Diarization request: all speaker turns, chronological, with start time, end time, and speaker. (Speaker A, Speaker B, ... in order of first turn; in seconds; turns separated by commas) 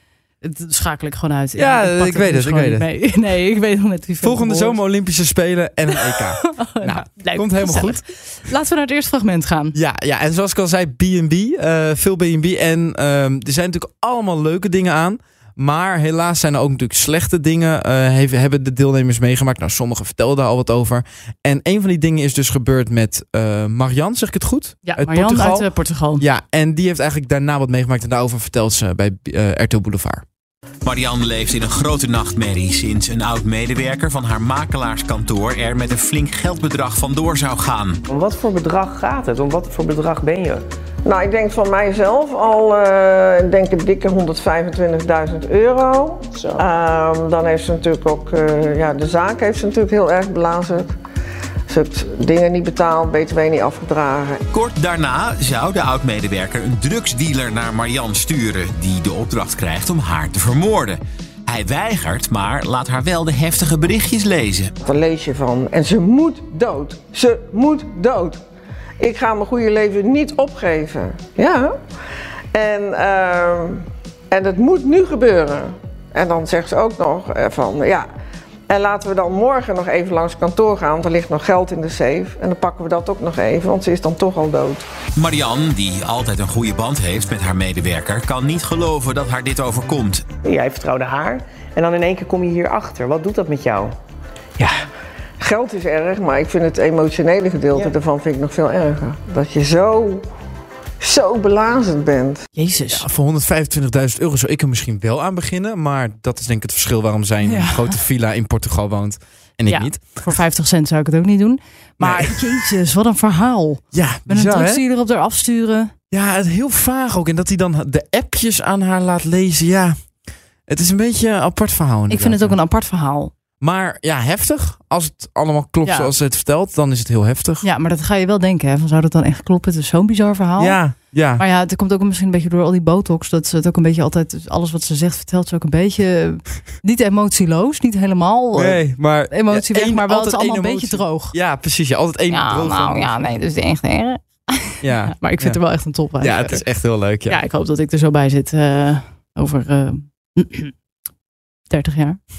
Speaker A: 0.4-4.8, Speaker B: 1.6-2.9, Speaker B: 4.2-8.0, Speaker A: 5.9-9.8, Speaker B: 9.8-25.7, Speaker A: 24.9-26.2, Speaker B: 26.2-30.2, Speaker C: 30.8-38.0, Speaker D: 38.1-40.6, Speaker E: 41.0-51.0, Speaker D: 46.4-46.6, Speaker E: 51.7-54.4, Speaker C: 54.5-64.7, Speaker E: 64.8-68.4, Speaker E: 69.0-71.8, Speaker E: 72.5-78.1, Speaker E: 78.7-84.8, Speaker C: 85.2-90.3, Speaker D: 90.4-94.0, Speaker E: 95.4-100.3, Speaker E: 101.0-102.5, Speaker A: 102.6-103.1, Speaker B: 103.0-110.0, Speaker A: 107.4-108.0, Speaker A: 109.7-115.9, Speaker B: 112.0-112.3, Speaker B: 113.9-114.8, Speaker B: 116.1-120.0, Speaker B: 120.7-122.5, Speaker A: 122.1-123.3, Speaker B: 123.6-127.6, Speaker A: 125.8-126.1, Speaker A: 127.6-130.8, Speaker B: 130.6-131.4, Speaker A: 131.4-141.3, Speaker B: 138.5-143.2, Speaker A: 142.3-146.6, Speaker B: 144.8-145.6, Speaker B: 146.2-147.4, Speaker A: 147.3-150.7, Speaker A: 151.7-152.2